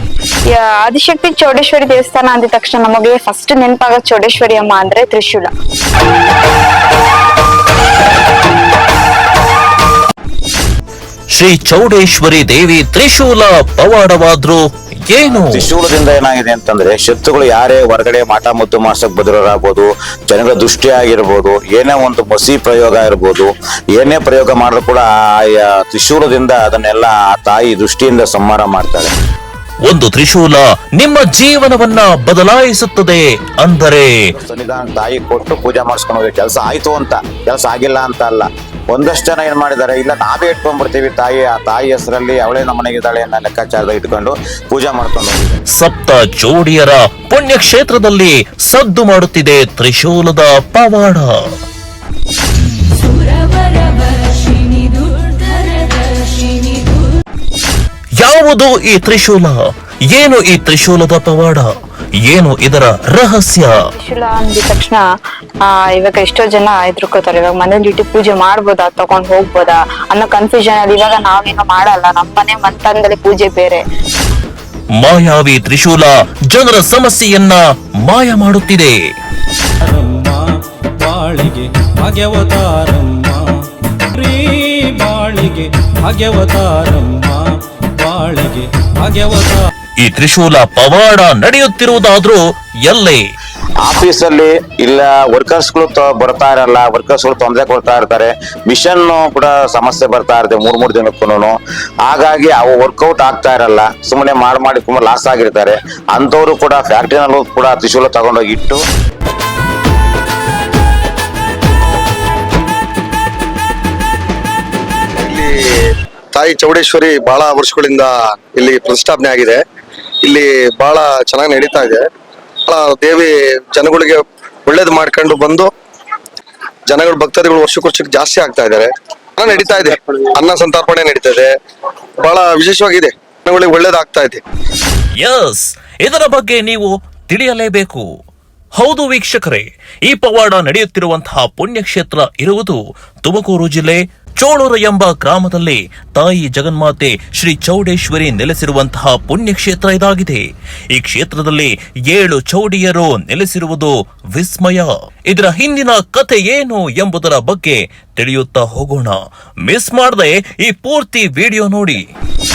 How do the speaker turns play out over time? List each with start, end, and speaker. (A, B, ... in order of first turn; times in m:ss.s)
0:00.5-0:05.5 A
0:11.3-0:15.6 B
0:15.4-0:29.1 C
0:29.8-0:34.1 B
0:34.4-0:45.6 C
0:45.7-0:51.3 B
0:58.2-0:59.6 B
1:00.1-1:01.7 B
1:02.3-1:03.8 B
1:03.9-1:05.0 A
1:05.6-1:13.8 A
1:15.0-1:18.9 B
1:19.8-1:29.6 D
1:30.0-1:33.2 B
1:33.8-1:48.8 C
1:55.2-1:55.5 E
1:56.3-1:59.6 E
2:00.2-2:02.0 E
2:02.7-2:05.7 E
2:06.9-2:11.5 E
2:12.2-2:14.4 E
2:15.2-2:18.0 B
2:18.7-2:42.0 B